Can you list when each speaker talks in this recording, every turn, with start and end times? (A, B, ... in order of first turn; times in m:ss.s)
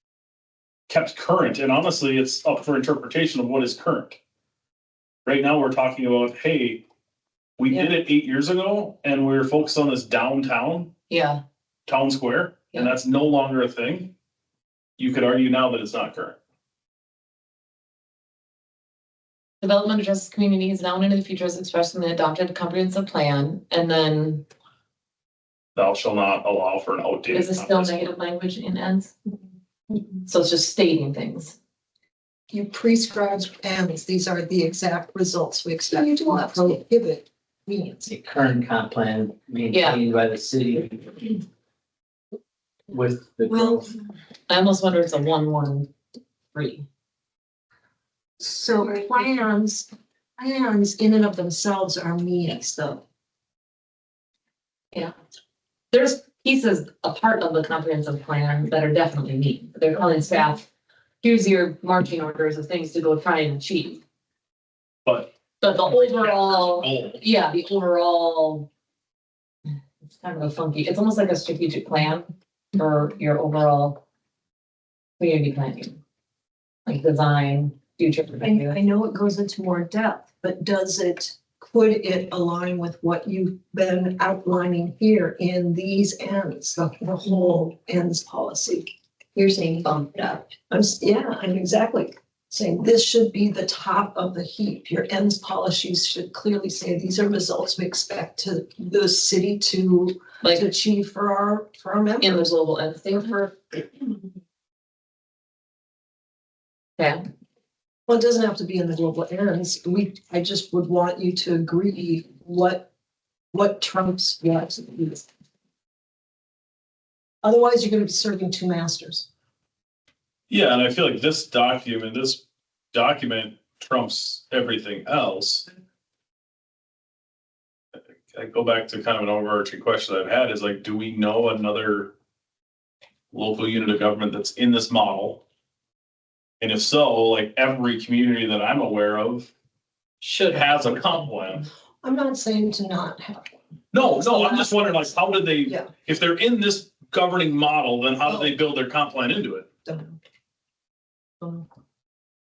0:00.9-0:04.2 A
0:05.2-0:06.8 A
0:07.6-0:11.0 A
0:07.7-0:08.0 B
0:11.1-0:11.4 B
0:11.8-0:14.1 A
0:15.0-0:16.4 A
0:19.6-0:24.4 B
0:25.7-0:28.1 A
0:27.3-0:29.1 B
0:30.2-0:31.6 B
0:32.5-0:38.1 C
0:35.9-0:36.7 D
0:38.0-0:41.4 E
0:39.7-0:40.0 B
0:42.9-0:43.9 E
0:43.5-0:43.8 C
0:44.5-0:45.9 B
0:46.5-0:46.8 B
0:48.4-0:53.0 C
0:55.9-1:00.7 B
1:01.2-1:04.0 B
1:05.0-1:07.2 A
1:05.6-1:08.7 B
1:10.2-1:14.0 B
1:15.2-1:16.0 B
1:16.8-1:18.8 B
1:18.4-1:28.9 C
1:29.3-1:30.6 D
1:30.6-1:42.5 C
1:40.4-1:40.7 B
1:42.2-1:43.5 B
1:48.1-1:52.9 C
1:53.5-1:55.3 C
1:57.4-1:59.2 C
2:00.5-2:02.4 A
2:02.9-2:05.7 A
2:08.3-2:12.1 A
2:13.3-2:15.4 A
2:16.6-2:19.5 A
2:20.2-2:21.4 B
2:20.5-2:21.6 A
2:22.0-2:23.5 C
2:23.9-2:29.7 A
2:24.1-2:25.1 C
2:25.6-2:25.9 C
2:28.2-2:28.6 C
2:29.8-2:30.2 C